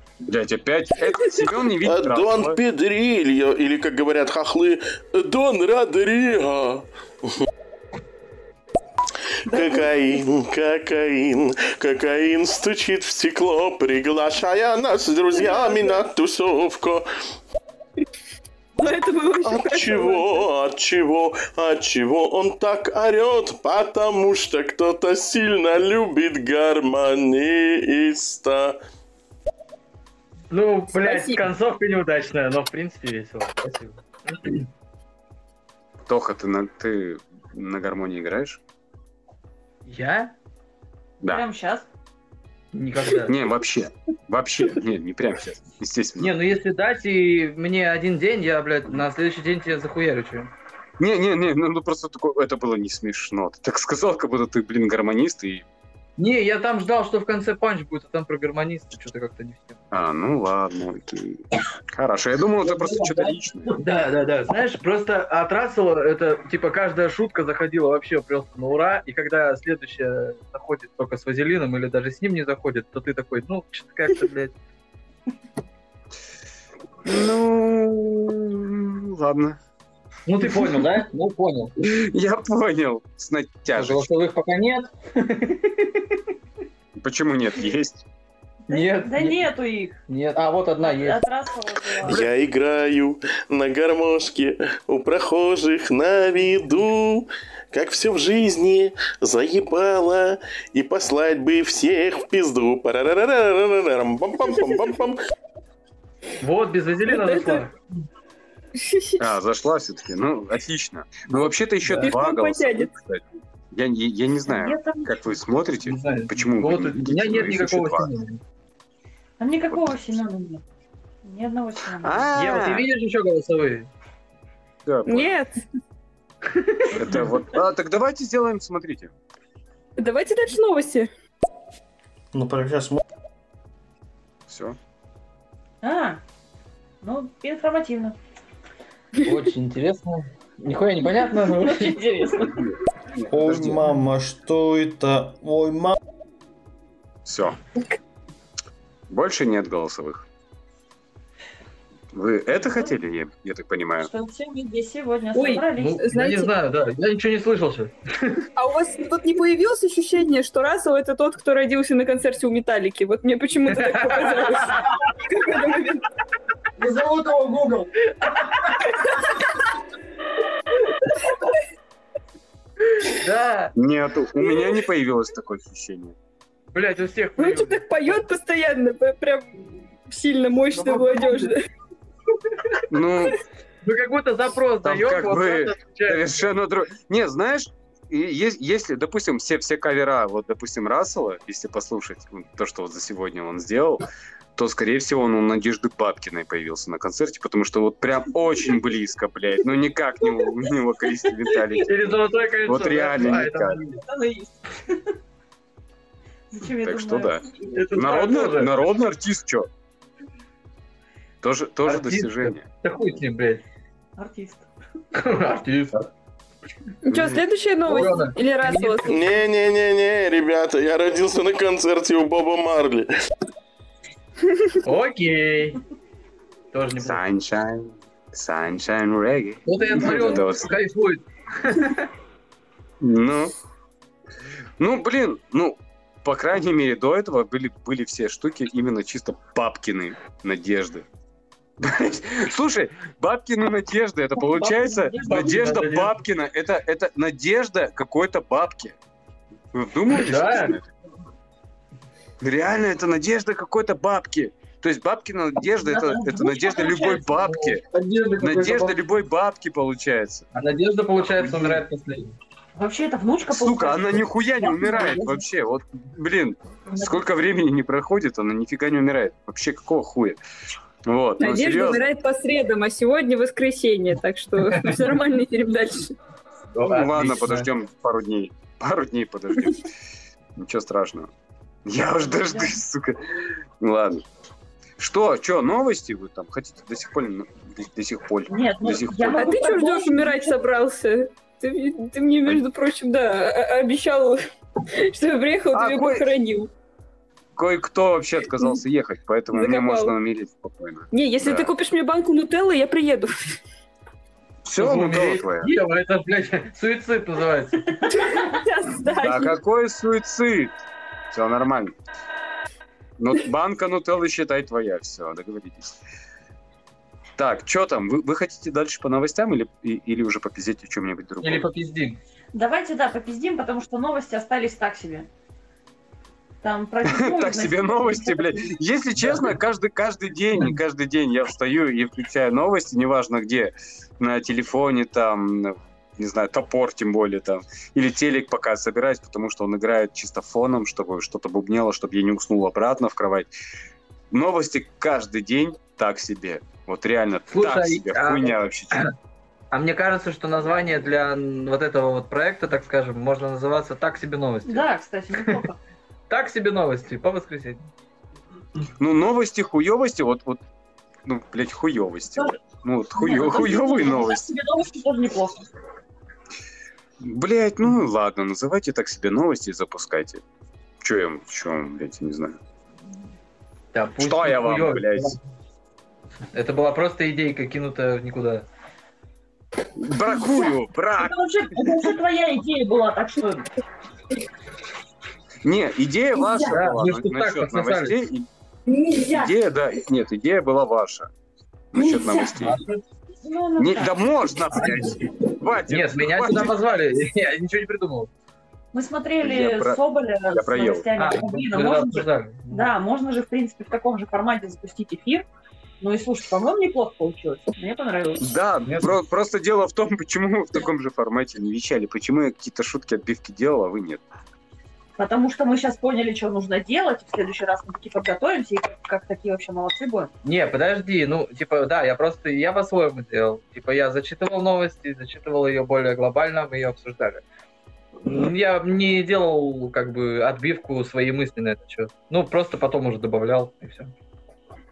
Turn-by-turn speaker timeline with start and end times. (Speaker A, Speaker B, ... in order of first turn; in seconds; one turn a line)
Speaker A: 0.2-2.6
Speaker B: 1.8-7.5
Speaker B: 9.4-17.1
Speaker C: 9.6-9.8
Speaker C: 15.4-16.0
Speaker C: 18.8-20.4
Speaker B: 19.4-28.8
Speaker D: 30.5-34.6
Speaker C: 30.9-31.4
Speaker A: 36.1-38.6
Speaker D: 39.9-40.3
Speaker E: 41.2-41.9
Speaker D: 42.7-43.4
Speaker A: 43.2-46.3
Speaker D: 46.2-50.5
Speaker A: 51.0-55.6
Speaker D: 56.2-59.8
Speaker A: 59.9-63.7
Speaker D: 62.6-74.5
Speaker A: 77.0-79.6
Speaker D: 80.3-81.7
Speaker A: 81.8-84.1
Speaker D: 83.7-86.1
Speaker A: 87.0-88.0
Speaker D: 88.7-89.5
Speaker E: 88.7-90.0
Speaker D: 90.1-91.2
Speaker E: 90.8-92.3
Speaker B: 92.0-105.2
Speaker C: 104.4-104.8
Speaker D: 106.4-107.7
Speaker C: 107.1-107.6
Speaker C: 108.8-109.2
Speaker A: 109.2-118.1
Speaker D: 111.3-112.2
Speaker C: 112.0-112.9
Speaker E: 114.5-115.1
Speaker D: 115.8-118.4
Speaker E: 119.4-120.6
Speaker E: 121.2-122.3
Speaker A: 122.0-122.9
Speaker D: 122.3-123.9
Speaker A: 124.8-125.3
Speaker C: 125.1-125.6
Speaker D: 126.6-127.3
Speaker A: 127.0-129.1
Speaker C: 130.0-131.1
Speaker F: 132.3-133.0
Speaker A: 134.5-134.8
Speaker E: 135.8-136.2
Speaker E: 137.0-138.2
Speaker D: 139.2-142.3
Speaker E: 141.6-142.7
Speaker A: 142.6-143.8
Speaker F: 143.3-146.0
Speaker A: 147.2-147.6
Speaker A: 149.1-150.2
Speaker A: 152.1-154.1
Speaker E: 154.0-156.0
Speaker C: 155.3-156.5
Speaker D: 155.7-158.4
Speaker C: 158.6-166.1
Speaker D: 163.7-165.0
Speaker G: 166.8-167.9
Speaker D: 173.2-173.7
Speaker A: 173.8-176.2
Speaker D: 176.7-178.2
Speaker C: 177.4-181.7
Speaker A: 182.9-183.4
Speaker D: 183.8-186.5
Speaker A: 184.8-194.0
Speaker A: 194.6-203.8
Speaker D: 201.5-204.0
Speaker E: 204.0-205.0
Speaker E: 206.5-207.4
Speaker A: 206.8-209.7
Speaker D: 207.6-208.8
Speaker A: 211.4-212.7
Speaker D: 211.8-213.6
Speaker E: 214.2-214.7
Speaker D: 215.2-216.1
Speaker C: 217.0-219.2
Speaker A: 217.1-217.4
Speaker D: 217.8-219.2
Speaker B: 219.1-223.1
Speaker D: 224.8-225.8
Speaker D: 226.7-227.2
Speaker A: 227.0-230.7
Speaker D: 229.7-232.1
Speaker A: 233.0-233.6
Speaker A: 234.8-241.1
Speaker A: 241.8-249.0
Speaker E: 244.4-245.5
Speaker D: 245.2-246.2
Speaker A: 249.7-250.9
Speaker D: 250.2-250.8
Speaker A: 252.4-257.8
Speaker E: 255.9-257.5
Speaker G: 257.9-259.0
Speaker A: 258.4-260.5
Speaker D: 260.5-262.4
Speaker A: 261.2-261.8
Speaker E: 262.8-265.4
Speaker A: 263.5-270.4
Speaker E: 266.9-267.2
Speaker A: 271.1-272.0
Speaker C: 271.4-276.1
Speaker D: 274.6-275.1
Speaker D: 276.8-277.7
Speaker A: 276.8-279.9
Speaker A: 280.6-281.3
Speaker A: 281.9-284.2
Speaker A: 285.0-289.6
Speaker E: 288.5-290.6
Speaker C: 289.4-294.4
Speaker C: 295.0-296.7
Speaker A: 295.7-296.3
Speaker A: 297.6-301.7
Speaker C: 299.5-300.2
Speaker C: 301.1-303.6
Speaker A: 304.6-305.7
Speaker D: 304.8-307.9
Speaker C: 308.1-309.6
Speaker A: 309.2-310.7
Speaker A: 311.3-312.0
Speaker A: 313.2-316.0
Speaker A: 317.4-321.7
Speaker D: 321.4-322.2
Speaker E: 322.5-325.3
Speaker E: 326.6-328.6
Speaker A: 327.0-343.5
Speaker A: 344.3-349.0
Speaker D: 347.5-349.1
Speaker D: 349.7-355.6
Speaker E: 354.6-355.8
Speaker D: 356.3-357.9
Speaker A: 359.0-360.6
Speaker A: 361.2-364.4
Speaker E: 363.2-365.7
Speaker A: 367.2-370.4
Speaker A: 371.0-372.6
Speaker D: 373.9-375.4
Speaker A: 374.2-375.4
Speaker D: 376.5-378.7
Speaker A: 380.0-381.4
Speaker E: 380.4-383.7
Speaker A: 385.6-388.5
Speaker D: 386.6-388.2
Speaker C: 388.9-389.6
Speaker A: 389.3-391.3
Speaker A: 391.9-392.8
Speaker E: 391.9-392.6
Speaker D: 392.5-393.0
Speaker E: 393.4-394.2
Speaker A: 393.8-396.8
Speaker D: 394.7-395.2
Speaker D: 395.9-398.3
Speaker E: 398.9-405.5
Speaker A: 399.4-400.0
Speaker A: 400.5-401.1
Speaker D: 401.1-402.9
Speaker E: 406.0-408.5
Speaker A: 408.4-414.2
Speaker E: 415.2-420.3
Speaker D: 420.4-427.4
Speaker D: 428.2-434.1